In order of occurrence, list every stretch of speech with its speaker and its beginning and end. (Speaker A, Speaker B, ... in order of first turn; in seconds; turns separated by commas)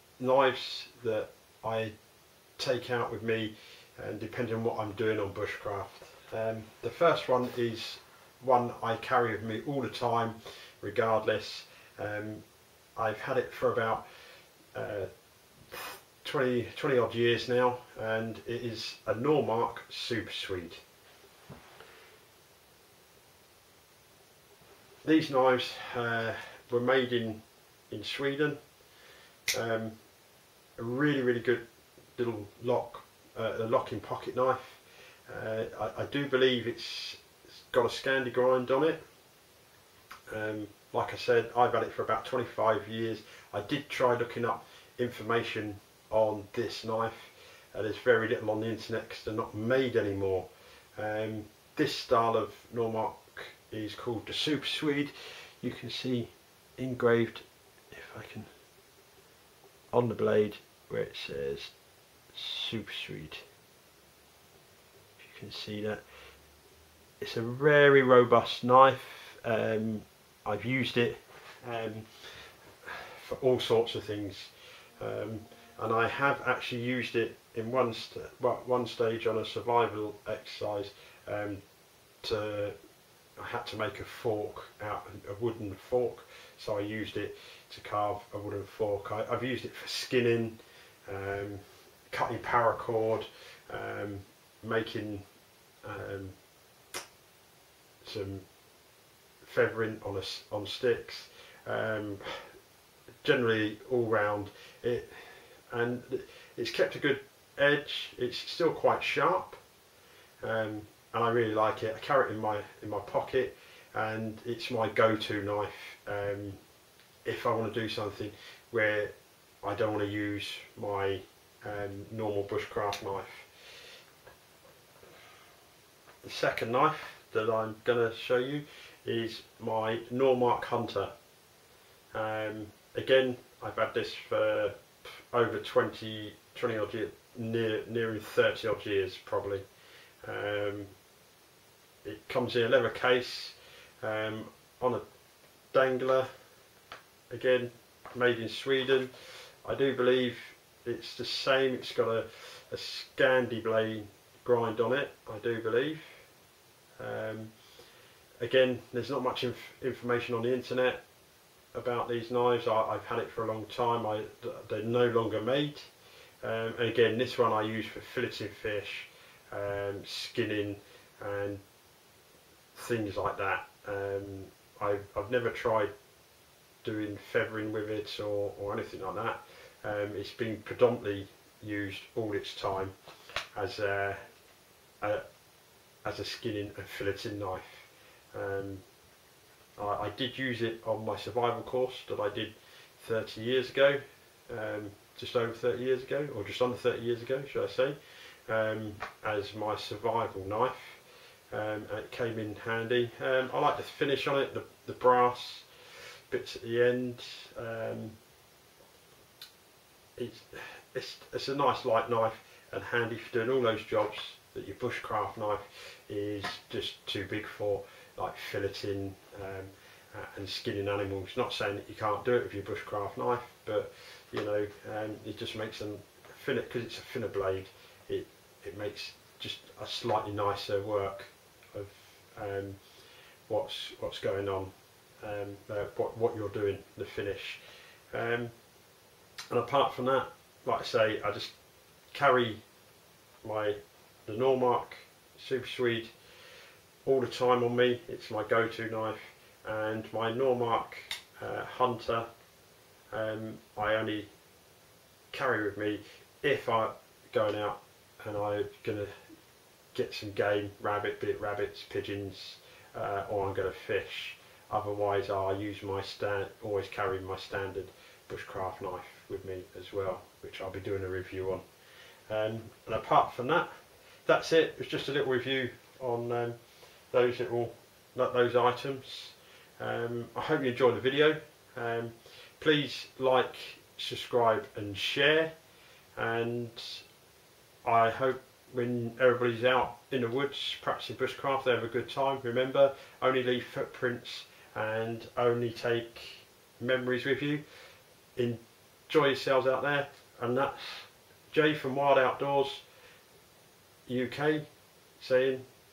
Speaker A: 0.2-1.9, Speaker A: 2.6-12.4, Speaker A: 12.9-14.0, Speaker A: 14.7-15.1, Speaker A: 15.7-20.8, Speaker A: 25.0-28.6, Speaker A: 29.5-29.9, Speaker A: 30.8-31.6, Speaker A: 32.1-39.0, Speaker A: 40.3-58.5, Speaker A: 59.9-61.7, Speaker A: 62.3-63.4, Speaker A: 65.2-66.0, Speaker A: 67.2-72.1, Speaker A: 72.8-81.6, Speaker A: 82.2-82.8, Speaker A: 83.4-95.2, Speaker A: 95.8-96.3, Speaker A: 98.0-98.5, Speaker A: 99.4-102.5, Speaker A: 103.2-109.6, Speaker A: 110.4-116.6, Speaker A: 117.2-123.5, Speaker A: 126.2-131.1, Speaker A: 132.1-139.6, Speaker A: 140.2-140.9, Speaker A: 142.0-145.0, Speaker A: 145.7-146.3, Speaker A: 147.3-156.2, Speaker A: 157.0-157.5, Speaker A: 158.4-161.0, Speaker A: 161.7-165.9, Speaker A: 166.4-171.6, Speaker A: 172.7-175.9, Speaker A: 176.8-182.9, Speaker A: 183.5-184.2, Speaker A: 186.0-188.8, Speaker A: 189.8-201.0, Speaker A: 201.5-205.7, Speaker A: 206.3-208.2, Speaker A: 210.2-232.8, Speaker A: 233.5-237.6, Speaker A: 238.1-238.5, Speaker A: 239.5-241.5, Speaker A: 242.1-242.6, Speaker A: 243.4-246.1, Speaker A: 247.0-252.3, Speaker A: 253.1-254.3, Speaker A: 255.3-259.1, Speaker A: 259.9-271.6, Speaker A: 272.3-273.7, Speaker A: 274.2-276.6, Speaker A: 277.1-285.5, Speaker A: 286.1-287.0, Speaker A: 287.8-297.6, Speaker A: 298.4-302.8, Speaker A: 304.1-304.6, Speaker A: 305.2-305.6